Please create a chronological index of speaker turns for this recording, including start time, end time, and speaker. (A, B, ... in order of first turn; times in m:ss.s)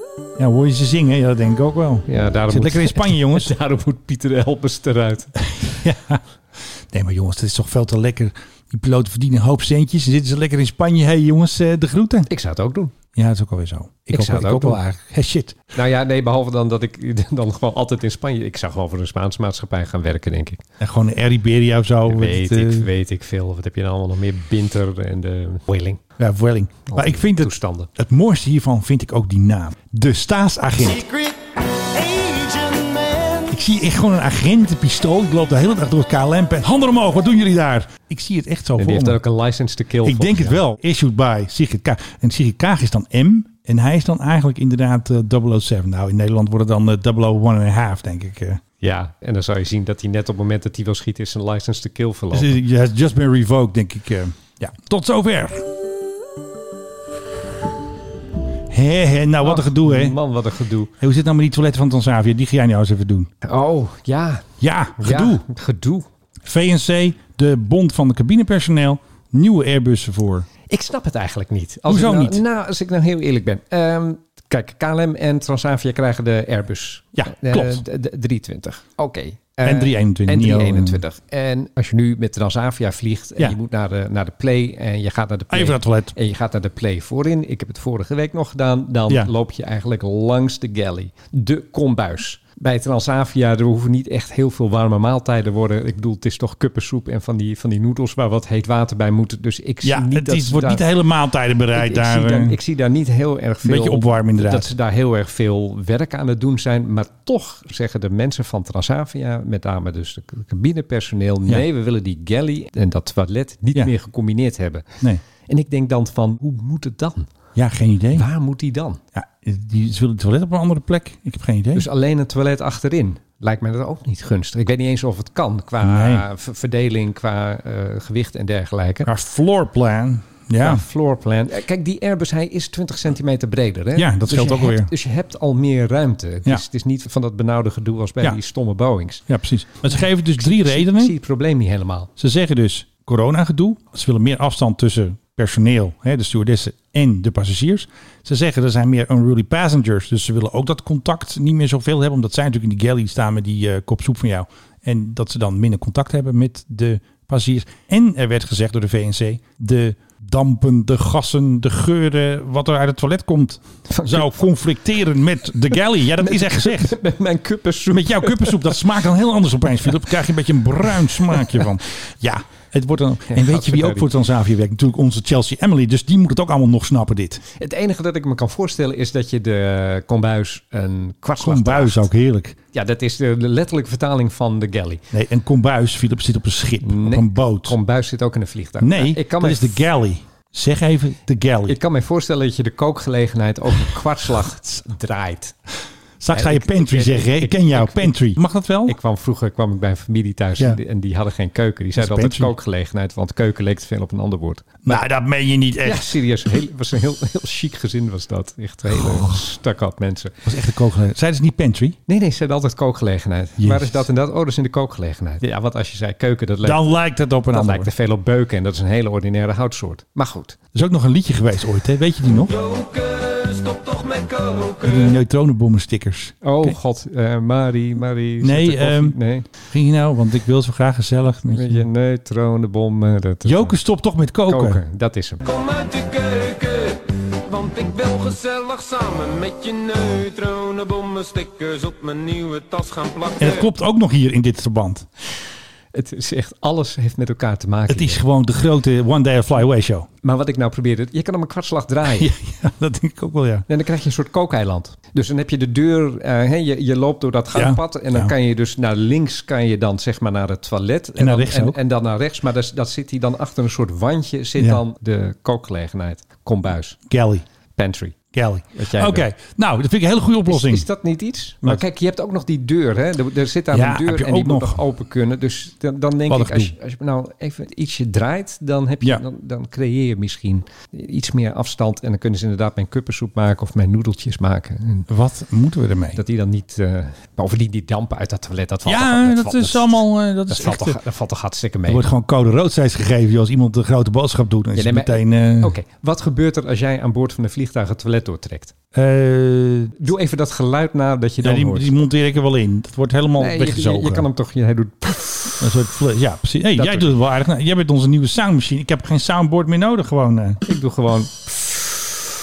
0:00.4-0:03.5 A
0:02.1-0:05.8 B
0:05.4-0:06.2 A
0:06.9-0:12.3 A
0:12.3-0:12.9 B
0:13.1-0:15.6 A
0:14.1-0:14.8 B
0:15.7-0:20.6 B
0:20.8-0:22.9 A
0:22.0-0:26.0 B
0:26.2-0:31.1 A
0:26.9-0:27.9 B
0:33.4-0:39.2 A
0:38.8-0:40.6 B
0:40.0-0:48.6 A
0:48.8-0:52.6 B
0:52.3-0:55.7 A
0:58.7-1:00.2 A
0:59.4-1:00.9 B
1:01.0-1:03.3 A
1:03.4-1:04.5 B
1:04.6-1:05.4 A
1:05.0-1:06.1 B
1:06.4-1:10.5 A
1:10.7-1:40.8 B
1:11.9-1:12.4 A
1:17.2-1:17.8 A
1:19.6-1:21.0 A
1:25.5-1:26.1 A
1:39.8-1:42.6 A
1:41.7-1:57.3 B
1:43.6-1:44.7 A
1:57.6-1:58.3 A
1:58.1-1:59.0 B
1:59.1-2:01.8 A
2:01.7-2:09.1 B
2:05.8-2:06.2 A
2:09.0-2:10.8 A
2:10.6-2:19.2 B
2:14.0-2:14.9 A
2:19.3-2:21.1 A
2:19.9-2:22.1 B
2:22.2-2:47.0 A
2:43.9-2:44.4 B
2:46.2-2:48.8 B
2:47.9-2:57.4 A
2:51.1-2:51.6 B
2:53.3-2:54.1 B
2:57.6-3:02.1 B
3:01.4-3:02.6 A
3:02.7-3:05.0 B
3:05.1-3:07.7 A
3:06.8-3:09.8 B
3:08.8-3:11.8 A
3:11.7-3:15.6 B
3:16.2-3:19.0 A
3:16.3-3:18.2 B
3:18.8-3:25.0 B
3:22.0-3:22.5 A
3:24.8-3:26.2 A
3:25.8-3:30.3 B
3:28.9-3:29.4 A
3:30.4-3:32.0 A
3:32.1-3:36.9 B
3:33.6-3:34.1 A
3:36.6-3:37.9 A
3:37.5-3:40.6 B
3:40.7-3:42.5 A
3:42.4-3:45.2 C
3:44.8-3:46.8 A
3:46.4-3:49.4 B
3:48.4-3:51.8 A
3:51.5-3:53.8 B
3:53.4-3:54.8 A
3:54.5-3:55.4 B
3:55.4-4:03.7 C
4:03.4-4:05.0 A
4:05.9-4:08.2 B
4:07.9-4:10.1 A
4:10.2-4:12.3 B
4:12.1-4:13.6 A
4:13.7-4:27.0 B
4:17.5-4:18.3 A
4:21.2-4:21.8 A
4:27.1-4:27.4 A
4:27.8-4:28.2 B
4:28.3-4:30.9 A
4:28.8-4:29.3 B
4:30.5-4:45.1 B
4:33.7-4:34.8 A
4:36.3-4:36.7 A
4:45.1-4:46.2 A
4:46.1-4:52.1 B
4:48.8-4:51.0 A
4:51.9-4:55.7 A
4:54.8-4:58.7 B
4:58.9-5:00.0 A
5:00.0-5:02.0 B
5:01.4-5:04.2 A
5:03.4-5:05.6 B
5:05.6-5:10.6 A
5:06.8-5:07.1 B
5:10.6-5:12.2 B